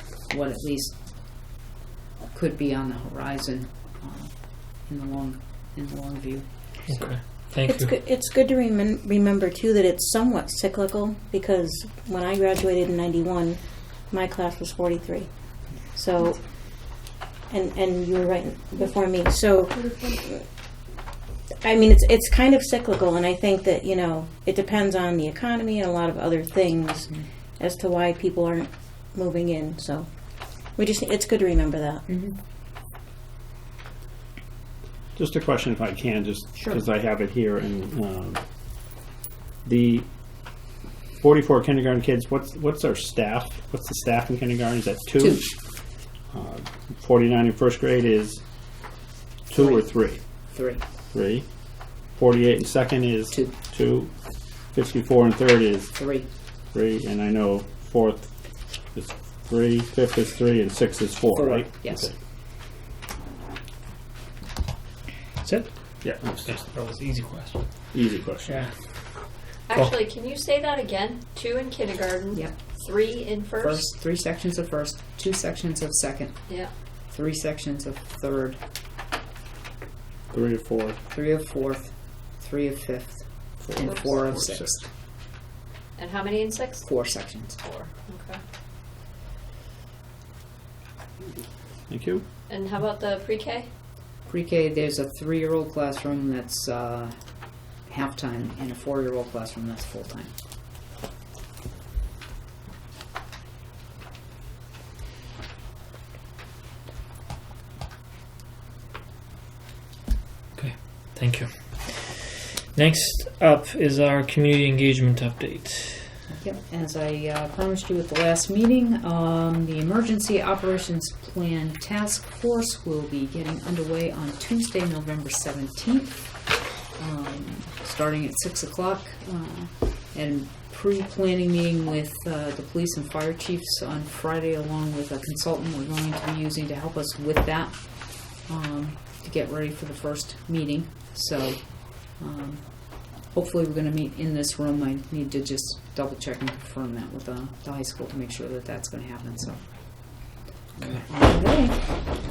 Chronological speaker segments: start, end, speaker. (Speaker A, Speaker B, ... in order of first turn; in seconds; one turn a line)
Speaker A: 0.2-1.0
Speaker A: 2.3-7.1
Speaker B: 6.9-7.9
Speaker C: 7.7-16.7
Speaker C: 17.5-20.4
Speaker C: 21.6-30.1
Speaker C: 30.8-32.1
Speaker A: 32.1-32.3
Speaker D: 35.1-38.4
Speaker D: 39.6-40.0
Speaker D: 41.2-45.5
Speaker A: 45.2-45.5
Speaker D: 46.3-48.4
Speaker D: 49.5-50.2
Speaker A: 49.5-50.0
Speaker A: 50.5-50.8
Speaker D: 51.1-51.5
Speaker D: 52.1-54.1
Speaker D: 54.7-56.0
Speaker A: 56.0-56.3
Speaker D: 56.7-58.3
Speaker D: 58.9-62.1
Speaker A: 61.3-62.1
Speaker B: 65.4-65.7
Speaker D: 66.0-66.5
Speaker B: 66.4-67.7
Speaker D: 67.9-68.7
Speaker B: 68.4-68.7
Speaker E: 69.7-73.8
Speaker A: 73.6-76.3
Speaker A: 77.1-78.6
Speaker D: 80.3-81.0
Speaker A: 81.1-84.8
Speaker D: 83.6-84.7
Speaker E: 86.0-86.9
Speaker A: 86.8-87.6
Speaker E: 87.5-88.4
Speaker D: 91.9-92.2
Speaker E: 92.5-93.7
Speaker A: 94.3-97.2
Speaker A: 97.8-100.3
Speaker B: 110.5-116.1
Speaker A: 116.3-149.6
Speaker A: 150.8-151.8